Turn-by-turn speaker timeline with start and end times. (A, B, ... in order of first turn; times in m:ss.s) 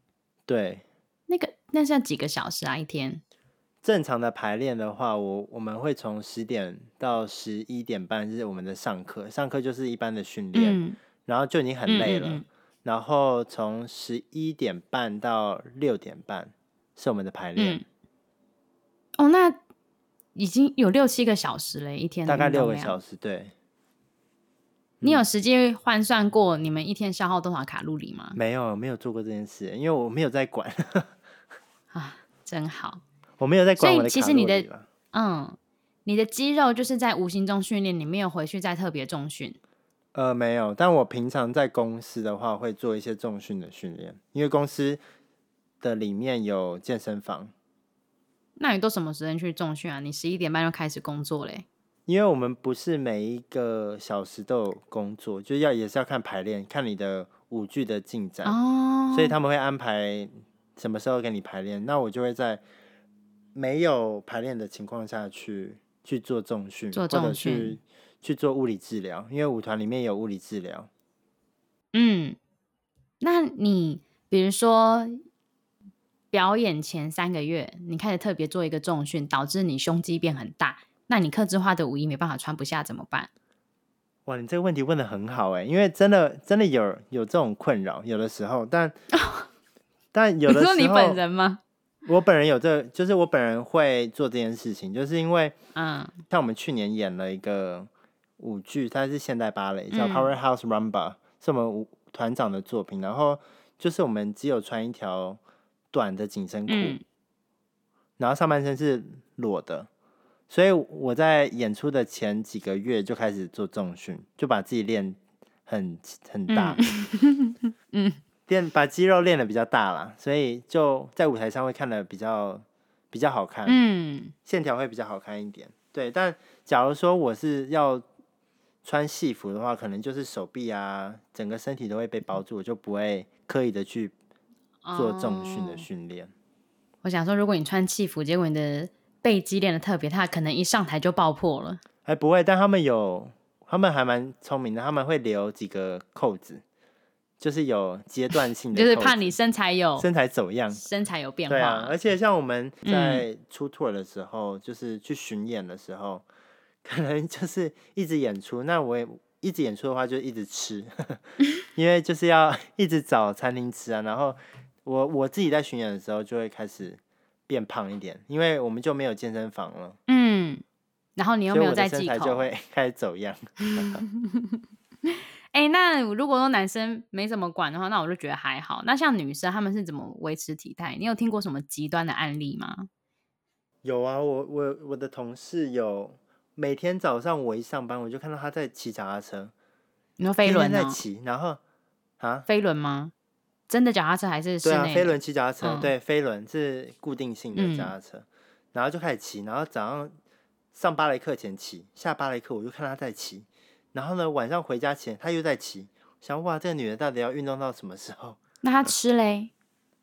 0:00.5-0:00.8 A
0:01.3-0:03.2 B
0:03.8-0:17.8 A
0:10.6-0:11.0 B
0:11.9-0:12.4 B
0:17.6-0:17.8 B
0:19.2-0:19.6 B
0:20.4-0:23.0 B
0:22.3-0:23.5 A
0:25.0-0:28.4 B
0:28.4-0:31.1 A
0:31.9-0:33.0 B
0:33.4-0:34.9 A
0:33.8-0:39.6 B
0:40.1-0:45.0 A
0:45.8-0:47.5 A
0:48.6-0:51.7 B
0:52.1-0:58.6 A
0:58.4-0:59.4 B
0:59.1-1:02.6 A
1:03.6-1:10.9 A
1:06.9-1:07.8 B
1:11.9-1:12.4 B
1:13.2-1:15.2 B
1:16.3-1:23.3 B
1:24.3-1:29.0 A
1:29.1-1:29.5 B
1:30.1-1:31.2 A
1:30.5-1:31.6 B
1:32.0-1:35.5 A
1:35.8-1:36.2 B
1:36.3-1:45.4 A
1:39.9-1:40.3 B
1:45.9-1:47.0 A
1:46.7-1:47.0 B
1:48.2-1:49.9 A
1:50.5-1:56.9 A
1:56.5-1:58.2 B
1:58.5-2:03.8 A
2:03.7-2:04.3 B
2:04.5-2:08.0 A
2:08.8-2:14.1 A
2:14.8-2:15.9 B
2:14.9-2:16.3 A
2:17.0-2:21.8 B
2:22.0-2:26.6 A
2:27.4-2:29.4 A
2:28.7-2:30.1 B
2:30.0-2:30.8 A
2:30.7-2:32.0 B
2:31.5-2:36.2 A
2:32.8-2:33.3 B
2:36.8-2:50.0 A
2:50.1-2:50.6 B
2:51.2-2:52.5 B
2:51.5-2:54.0 A
2:53.6-2:54.6 B
2:55.1-3:02.9 B
3:03.8-3:09.5 A
3:10.2-3:11.0 B
3:10.4-3:11.6 A
3:12.2-3:12.5 A
3:12.5-3:13.1 B
3:13.7-3:15.9 B
3:14.6-3:20.1 A
3:17.6-3:17.9 B
3:20.7-3:28.4 A
3:28.6-3:29.5 B